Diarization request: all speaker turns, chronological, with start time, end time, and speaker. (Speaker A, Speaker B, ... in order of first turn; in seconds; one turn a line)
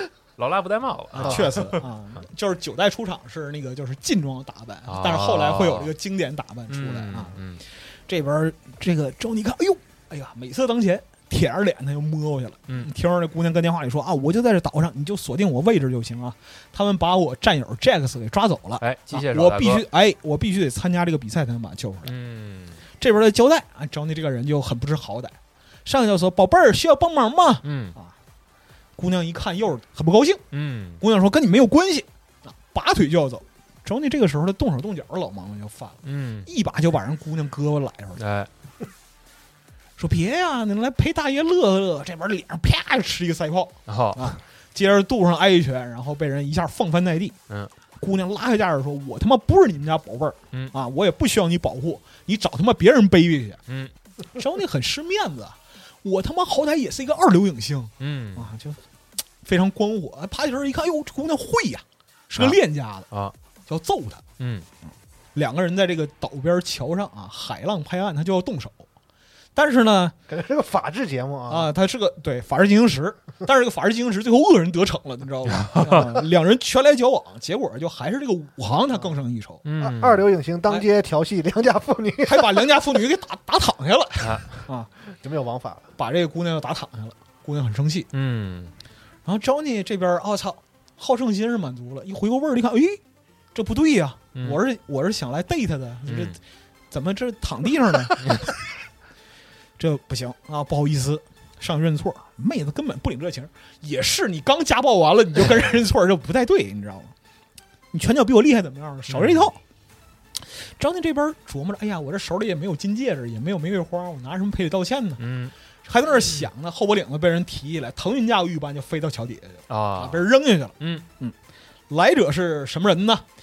Speaker A: 0.4-1.8
Speaker B: 1.1-7.4
Speaker A: 4.9-5.9
Speaker A: 6.7-7.6
Speaker B: 8.1-22.1
Speaker A: 18.8-19.9
Speaker A: 22.1-22.8
Speaker B: 23.0-28.1
Speaker A: 27.6-28.0
Speaker B: 29.0-30.4
Speaker A: 30.5-31.0
Speaker B: 31.0-38.2
Speaker A: 36.0-36.5
Speaker A: 38.2-38.5
Speaker B: 40.0-47.4
Speaker A: 43.9-44.4
Speaker B: 48.0-53.6
Speaker B: 54.4-58.8
Speaker A: 58.0-58.5
Speaker B: 59.4-63.1
Speaker B: 63.7-64.2
Speaker A: 64.4-64.7
Speaker B: 65.3-68.9
Speaker B: 69.5-70.2
Speaker C: 70.3-71.7
Speaker B: 71.5-79.6
Speaker A: 75.5-76.2
Speaker A: 79.7-80.3
Speaker C: 79.8-82.7
Speaker B: 82.2-84.9
Speaker A: 84.2-84.6
Speaker C: 85.1-85.9
Speaker B: 86.0-88.1
Speaker A: 88.1-88.7
Speaker B: 89.2-93.0
Speaker B: 93.5-96.4
Speaker A: 94.3-94.6
Speaker A: 96.1-96.4
Speaker B: 96.9-98.5
Speaker A: 98.2-98.5
Speaker B: 99.8-107.1
Speaker B: 107.9-109.6
Speaker A: 109.1-109.5
Speaker B: 110.4-115.2
Speaker A: 115.2-115.5
Speaker B: 115.8-121.3
Speaker A: 119.7-120.3
Speaker B: 121.9-123.2